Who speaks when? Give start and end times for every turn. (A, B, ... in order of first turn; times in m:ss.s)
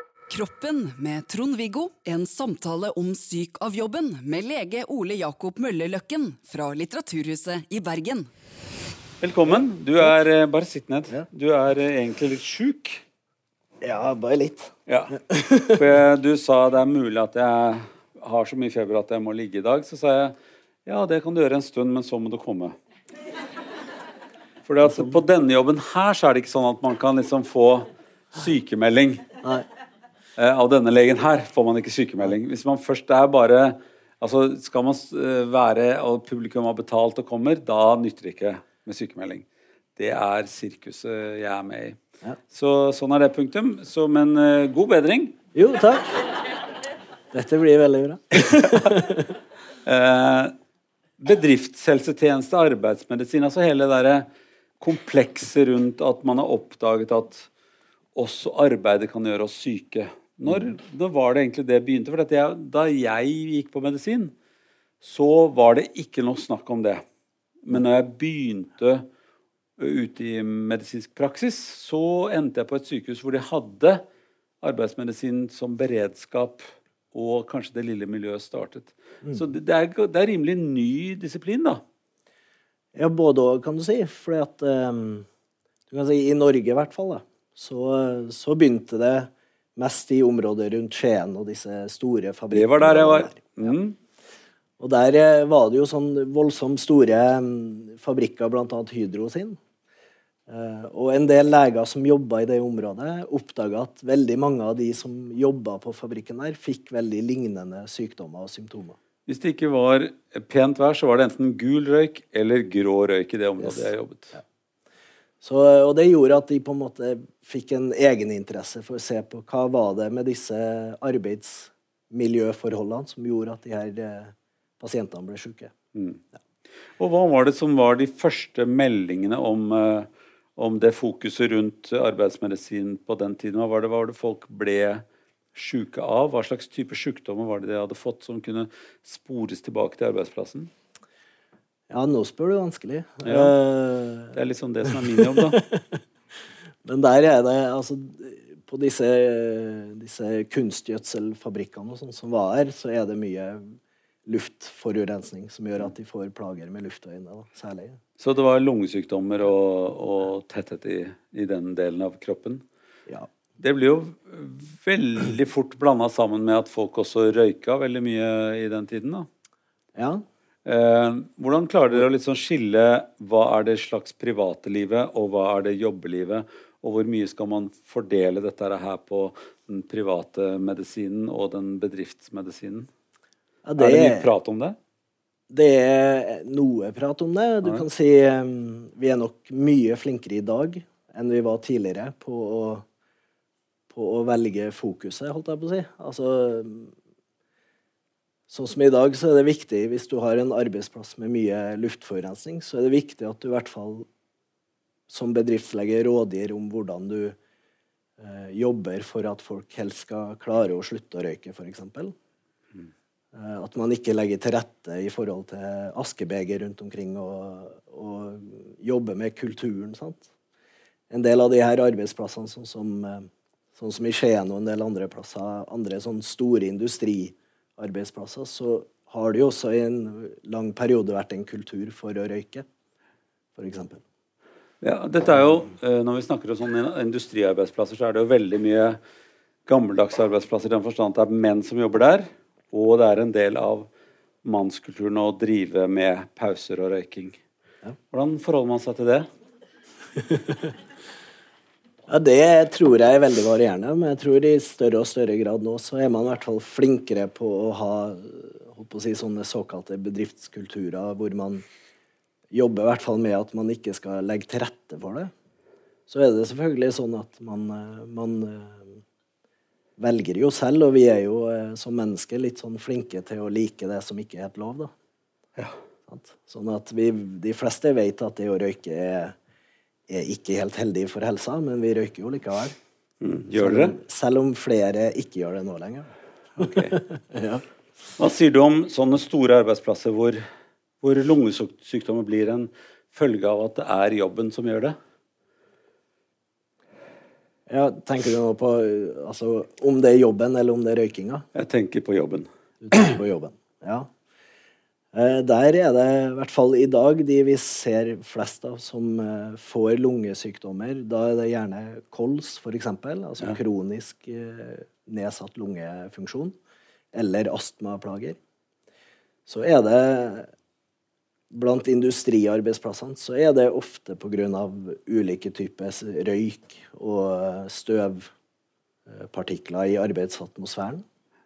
0:00.3-0:08.3 A
0:09.2-0:13.0 B
0:13.8-0:15.8 C
0:14.9-0:22.8 B
0:24.6-0:29.2 B
0:30.4-0:42.0 B
0:42.5-0:45.4 B
0:45.6-0:46.3 C
0:47.3-0:49.4 C
0:48.5-0:48.8 B
0:49.8-0:50.5 B
0:51.2-0:54.3 B
0:54.8-0:57.5 B
0:58.2-1:04.4 B
1:05.0-1:07.0 B
1:07.6-1:09.1 B
1:09.8-1:14.0 B
1:14.6-1:21.8 B
1:23.0-1:25.3 C
1:25.9-1:33.7 C
1:32.5-1:34.0 B
1:34.8-1:39.6 C
1:40.5-1:49.0 C
1:49.3-1:54.4 B
1:55.4-2:05.7 C
2:06.0-2:06.2 B
2:07.0-2:20.7 B
2:21.9-2:24.4 C
2:23.2-2:23.6 B
2:24.3-2:25.6 B
2:25.3-2:26.0 C
2:26.8-2:38.0 C
2:38.2-2:42.6 B
2:43.6-2:49.3 B
2:50.0-2:50.2 C
2:50.6-3:02.9 B
3:03.6-3:04.3 C
3:03.8-3:04.8 B
3:05.5-3:12.9 C
3:13.9-3:16.9 C
3:18.5-3:24.1 C
3:25.1-3:27.4 C
3:28.2-3:32.1 C
3:33.3-3:40.3 C
3:41.1-3:52.7 C
3:53.6-3:54.0 C
3:54.8-3:59.0 B
3:59.7-4:03.9 B
4:04.4-4:07.4 B
4:08.1-4:09.3 B
4:12.1-4:21.6 C
4:22.5-4:25.3 C
4:26.1-4:29.0 C
4:30.0-4:34.9 C
4:36.1-4:39.4 C
4:40.1-4:42.8 C
4:43.2-4:44.0 B
4:43.5-4:47.6 C
4:46.6-4:47.0 B
4:48.2-4:50.4 B
4:51.0-4:55.0 B
4:57.7-5:01.5 C
5:01.6-5:02.5 B
5:02.9-5:04.1 C
5:05.1-5:16.6 C
5:17.1-5:18.4 C
5:19.5-5:20.5 C
5:21.5-5:28.3 C
5:29.1-5:31.0 C